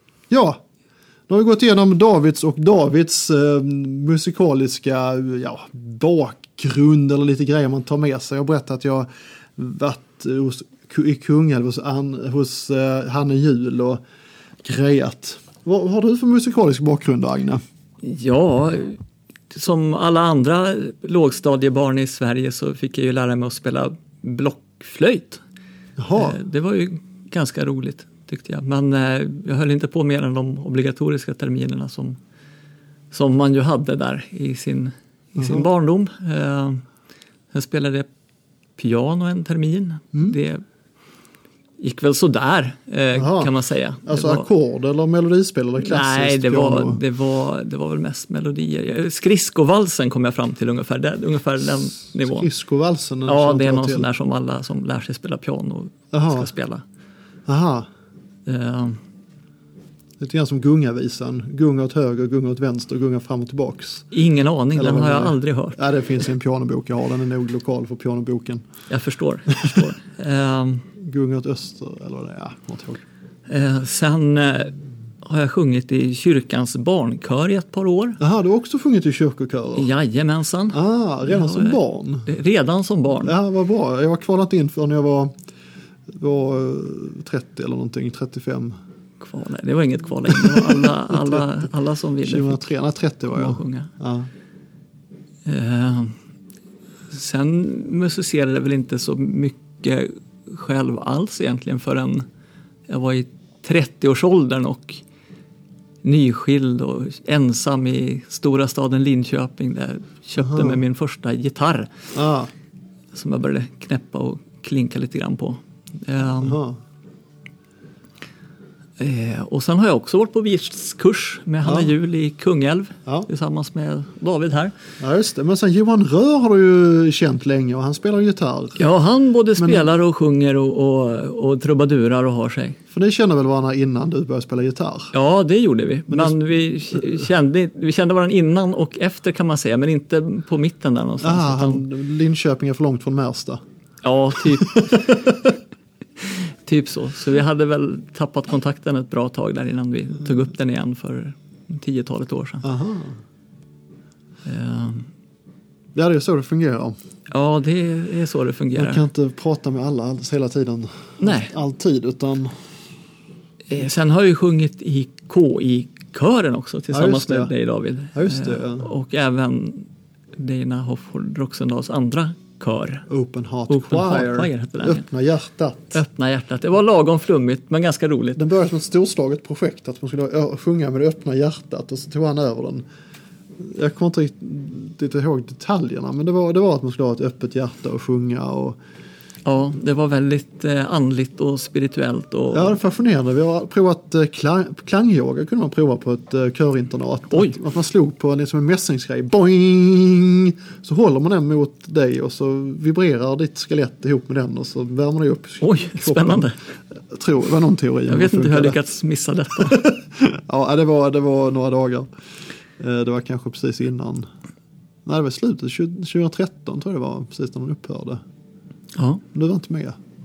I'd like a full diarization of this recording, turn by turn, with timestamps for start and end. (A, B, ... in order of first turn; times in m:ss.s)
0:00.3-0:00.6 A
0:01.3-0:14.0 A
0:14.6-0:17.6 A
0:18.0-0:19.0 B
0:19.5-0:25.4 B
0:26.0-0:26.4 A
0:26.1-0:32.2 B
0:33.1-0:36.8 B
0:35.4-0:35.7 A
0:37.5-0:38.1 B
0:38.8-0:40.6 B
0:41.8-0:44.5 B
0:43.1-0:43.5 A
0:44.0-0:47.0 A
0:45.8-0:52.5 B
0:52.0-0:54.1 A
0:53.2-0:56.8 B
0:56.1-0:56.5 A
0:57.5-0:57.9 A
0:58.4-0:59.0 B
1:00.2-1:04.1 A
1:04.1-1:05.8 B
1:04.7-1:08.6 A
1:08.9-1:10.8 B
1:11.0-1:13.0 A
1:13.5-1:18.2 B
1:18.2-1:19.9 A
1:19.8-1:23.3 B
1:20.7-1:22.3 A
1:23.2-1:25.3 A
1:26.2-1:28.8 A
1:29.2-1:32.6 B
1:30.6-1:31.4 A
1:32.2-1:34.3 A
1:33.3-1:33.9 B
1:35.4-1:36.1 B
1:37.1-1:42.2 B
1:42.9-1:45.0 B
1:46.0-1:51.9 B
1:50.4-1:50.8 A
1:52.1-1:52.5 A
1:53.1-1:56.6 B
1:56.4-1:56.8 A
1:59.0-2:04.7 B
2:01.6-2:01.9 A
2:05.0-2:08.8 A
2:08.8-2:12.8 B
2:09.6-2:09.9 A
2:12.9-2:15.1 A
2:15.1-2:21.8 B
2:16.1-2:16.4 A
2:21.2-2:23.6 A
2:24.0-2:25.0 B
2:24.7-2:25.4 A
2:26.2-2:32.6 B
2:32.6-2:33.2 A
2:34.4-2:35.1 B
2:35.9-2:36.9 A
2:37.3-2:39.0 B
2:38.7-2:42.5 A
2:41.2-2:41.5 B
2:43.7-2:53.0 B
2:46.9-2:47.5 A
2:48.1-2:48.9 A
2:53.1-2:56.0 A
2:53.7-2:55.0 B
2:55.9-2:58.4 B
2:58.4-3:02.8 A
3:03.6-3:08.8 A
3:09.4-3:12.8 B
3:12.5-3:28.8 A
3:17.3-3:17.6 B
3:25.6-3:26.6 B
3:28.1-3:29.8 B
3:29.6-3:32.1 A
3:32.8-3:34.3 A
3:35.0-3:38.2 A
3:38.9-3:39.2 B
3:39.3-3:40.0 A